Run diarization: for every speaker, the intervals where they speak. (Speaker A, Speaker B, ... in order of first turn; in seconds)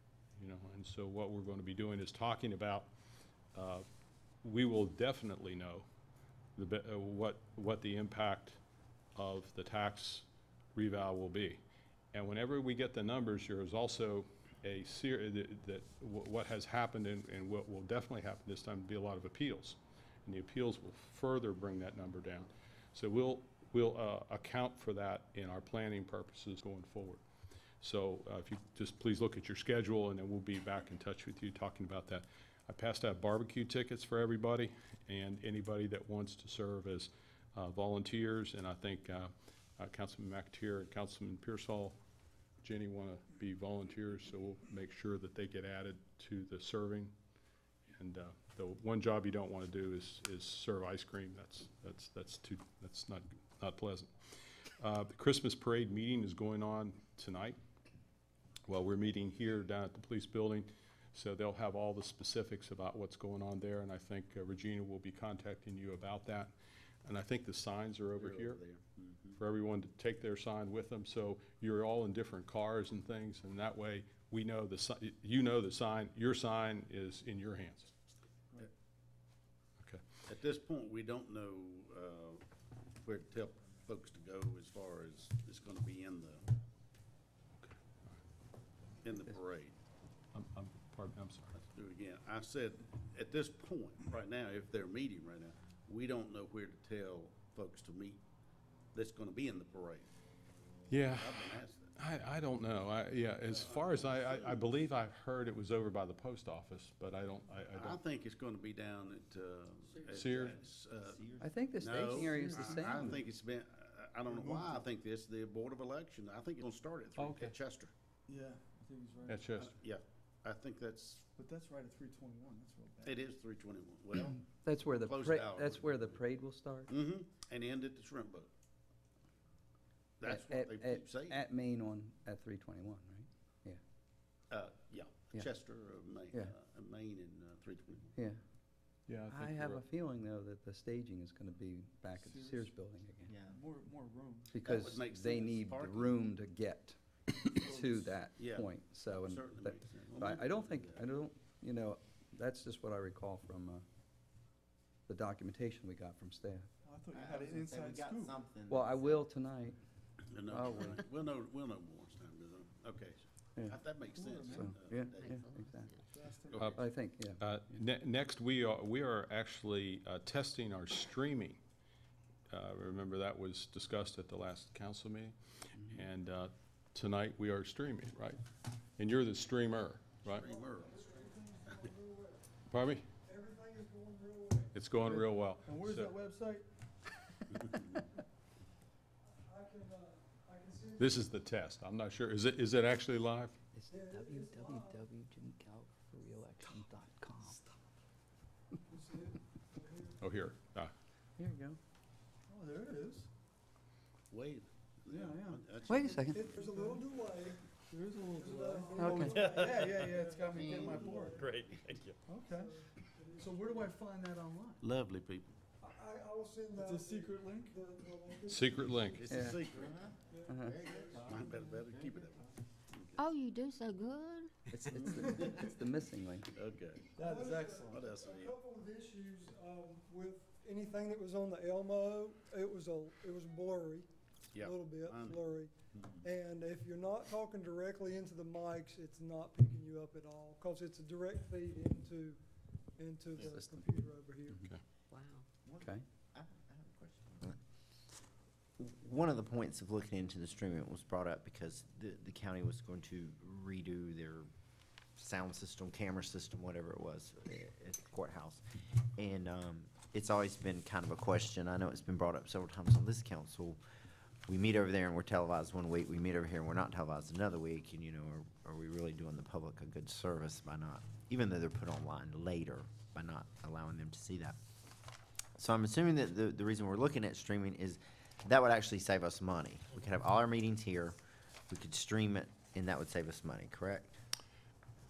Speaker A: 0.4-2.9, 3.5-3.9, 4.4-5.9, 6.6-8.6, 9.2-11.6, 12.1-27.2, 27.8-42.0, 42.6-47.1, 47.9-54.1, 54.8-57.6, 58.7-66.5, 67.0-68.6, 69.4-77.9, 90.3-91.5, 100.9-108.0, 110.1-110.5, 117.2-117.5, 119.3-119.7, 139.1-139.8, 166.5-166.8, 167.4-171.6, 172.5-178.4, 179.0-180.5, 182.7-183.1, 184.7-186.1, 191.0-193.6, 200.2-200.9, 218.5-219.3
Speaker B: 68.2-69.4, 80.3-82.4, 83.0-86.4, 89.0-89.8, 91.6-98.2, 98.9-100.1, 101.1-101.9, 103.5-104.7, 107.7-117.9, 119.6-121.2, 123.0-126.2, 126.9-128.5, 130.2-131.4, 134.5-138.2, 144.6-146.2, 148.4-151.1, 160.3-165.5, 166.5-166.8, 180.2-181.1, 187.5-187.8, 204.3-206.5, 209.3-209.9, 211.3-212.2, 214.8-215.5, 218.9-220.0, 221.1-223.2, 226.5-227.1, 227.9-228.6, 234.5-236.2
Speaker C: 110.0-111.6, 143.3-143.6, 157.1-159.3, 210.6-211.2, 219.6-221.4, 245.7-247.6, 248.8-254.5, 255.2-258.6, 259.2-263.8, 264.5-274.6, 275.6-281.2, 281.7-284.2
Speaker D: 111.4-113.1, 124.2-126.9, 130.2-133.8, 138.2-138.4, 139.2-143.4, 144.5-153.8, 155.1-156.7, 158.7-159.8, 160.5-161.0, 164.5-166.0, 166.7-167.4, 193.8-197.8, 201.4-201.8, 205.8-206.5, 208.9-209.4, 219.2-219.6, 220.5-220.9, 224.7-226.5, 243.5-244.7, 245.8-246.1
Speaker E: 112.0-113.2, 114.3-114.8, 118.3-119.5, 121.3-123.2, 142.1-142.8, 143.4-144.6, 147.5-148.2, 156.8-158.4, 164.1-164.8, 166.1-166.8, 185.0-186.7, 202.5-203.3, 205.1-205.8, 206.6-207.0, 207.9-211.5, 212.3-212.7, 213.4-214.8, 216.8-217.8, 227.2-228.1
Speaker F: 165.2-165.9, 223.2-224.7, 245.1-245.5
Speaker G: 180.4-182.4, 183.2-184.7, 189.3-191.3, 193.9-195.1, 198.9-200.2, 206.3-207.6, 208.3-211.5, 212.4-213.9, 215.8-219.6, 220.3-221.5, 225.3-225.7, 227.2-242.4, 243.0-244.7